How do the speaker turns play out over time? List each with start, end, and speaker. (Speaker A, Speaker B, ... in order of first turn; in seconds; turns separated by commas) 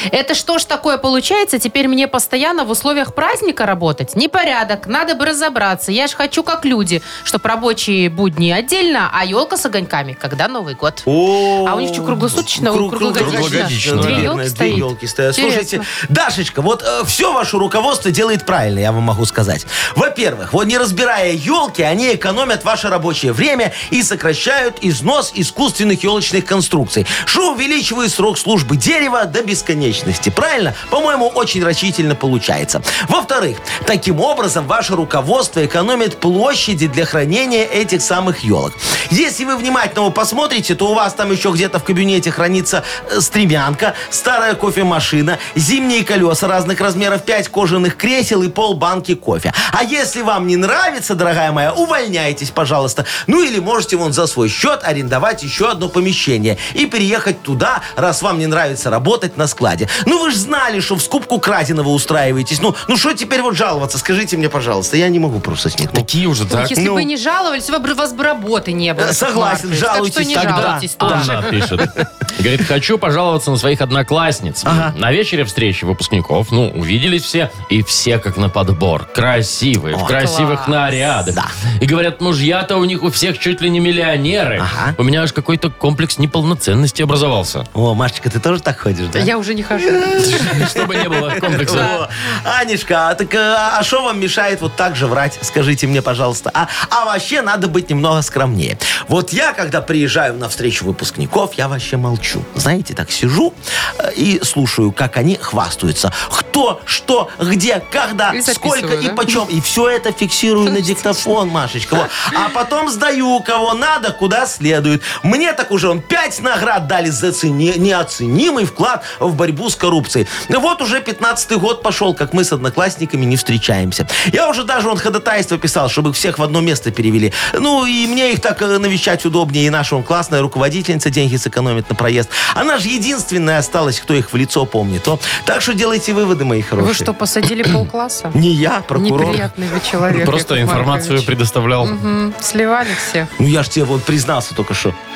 Speaker A: 0.1-11.1, Speaker B: 11.1-66.1, Speaker A: 11.6-15.9, Speaker C: 13.2-14.9, Speaker C: 65.9-66.8, Speaker A: 66.5-71.5, Speaker B: 66.7-67.1, Speaker B: 69.0-72.0, Speaker C: 70.3-87.7, Speaker B: 74.6-74.9, Speaker A: 80.1-80.8, Speaker B: 81.3-81.5, Speaker B: 84.6-85.0, Speaker B: 87.7-137.1, Speaker A: 89.1-90.7, Speaker C: 90.2-91.9, Speaker A: 91.5-92.0, Speaker A: 108.3-109.3, Speaker A: 136.8-138.3, Speaker B: 138.3-139.5, Speaker A: 138.9-141.3, Speaker C: 140.1-142.0, Speaker A: 141.8-143.3, Speaker B: 143.4-144.9